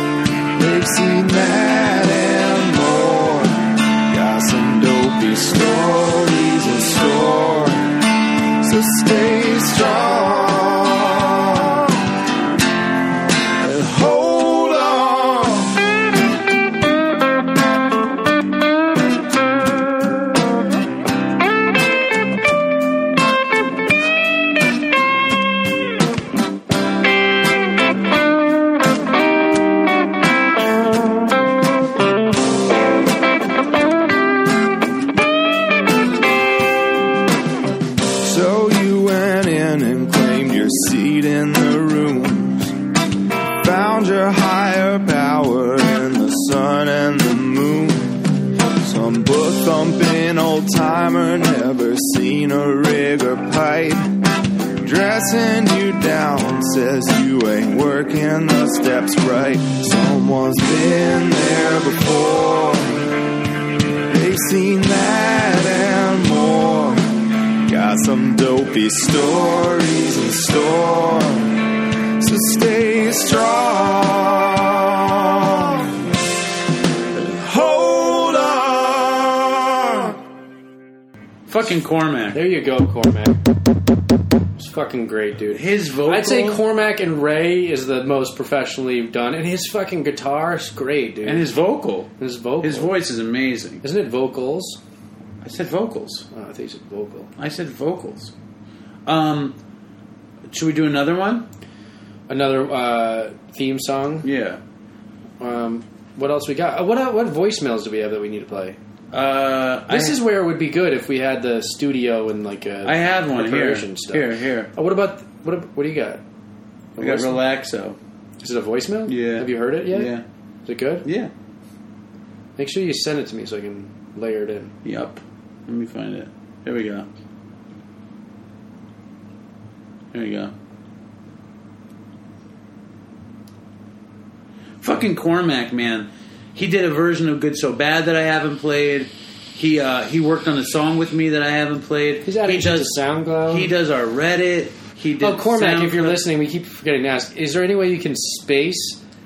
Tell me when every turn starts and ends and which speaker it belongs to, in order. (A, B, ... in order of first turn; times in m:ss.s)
0:00.6-0:07.9 A
0:08.6-0:12.0 A
0:13.6-0:15.8 A
0:38.2-0:42.8 A
0:43.6-0:54.1 A
0:54.8-1:03.1 A
1:04.1-1:07.1 A
1:07.6-1:16.0 A
1:17.1-1:20.2 A
1:21.5-1:22.4 B
1:22.3-1:23.4 C
1:24.6-1:31.5 C
1:25.5-1:26.6 B
1:31.2-1:33.8 B
1:32.2-1:33.0 C
1:33.8-1:34.8 C
1:35.4-1:36.3 B
1:36.3-1:37.3 C
1:37.4-1:38.3 B
1:39.0-1:39.6 B
1:40.5-1:41.5 B
1:42.3-1:44.3 C
1:44.2-1:44.6 B
1:45.4-1:48.8 C
1:49.1-1:50.2 B
1:49.9-1:56.2 C
1:52.8-1:54.7 B
1:57.0-1:57.4 C
1:57.0-1:58.0 B
1:58.4-2:01.0 C
1:59.1-2:00.2 B
2:01.0-2:01.3 B
2:02.6-2:04.7 C
2:04.8-2:07.1 B
2:10.1-2:10.5 B
2:14.8-2:26.2 B
2:22.2-2:23.7 C
2:25.2-2:29.0 C